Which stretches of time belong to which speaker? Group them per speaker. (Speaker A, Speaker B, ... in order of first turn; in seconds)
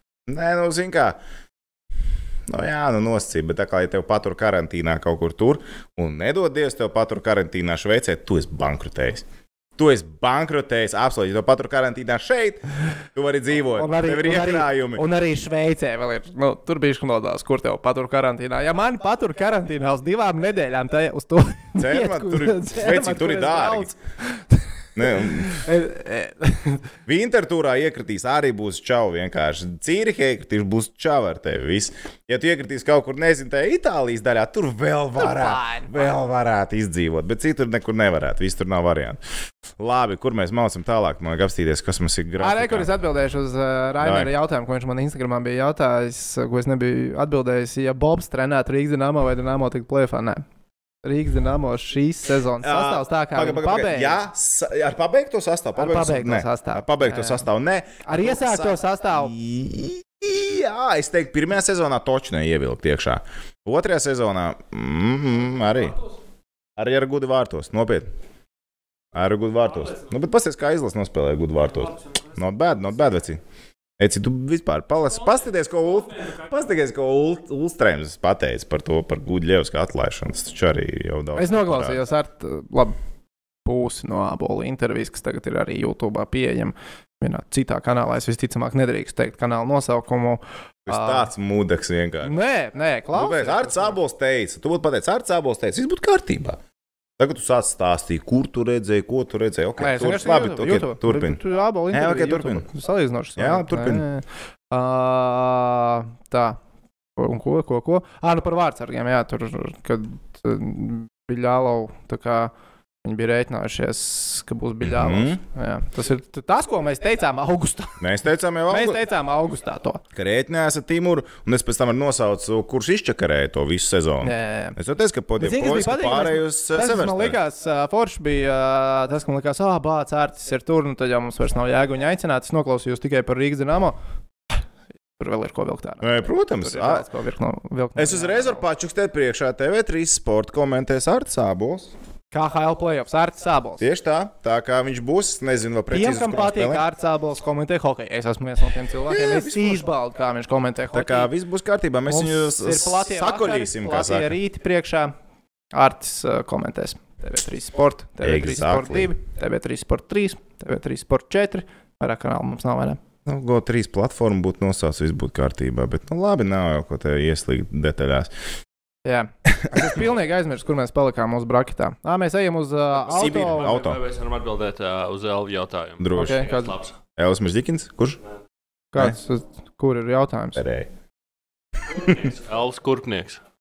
Speaker A: 0.3-1.2, 2.5-9.2, 9.8-15.0, 21.8-23.9, 25.0-25.6, 27.1-39.2, 39.8-42.9, 44.0-44.3, 52.6-66.0, 66.8-68.1, 69.1-73.4, 74.0-82.0, 90.9-92.3, 93.1-96.6, 97.2-101.4, 101.9-102.7, 103.4-104.0, 114.8-115.4, 118.0-119.0, 120.1-127.4, 136.0-137.1, 138.0-141.9, 143.8-146.8, 149.1-149.8, 150.9-154.3, 158.2-159.1, 163.3-168.3, 169.5-170.0, 173.1-174.0, 176.0-176.4, 177.2-178.2, 180.6-180.9
Speaker B: 13.8-26.9, 35.2-36.1, 42.4-50.4, 51.0-54.2, 55.8-57.5, 58.0-59.3, 81.4-83.0, 83.7-91.3, 92.2-94.0, 99.8-106.6, 107.2-112.5, 113.0-118.0, 118.7-120.0, 124.2-124.8, 125.4-134.0, 135.2-138.6, 142.3-143.8, 145.9-151.3, 152.1-155.1, 155.7-163.0, 169.1-173.8, 176.1-176.7, 178.9-180.6
Speaker C: 173.2-176.9, 181.9-183.4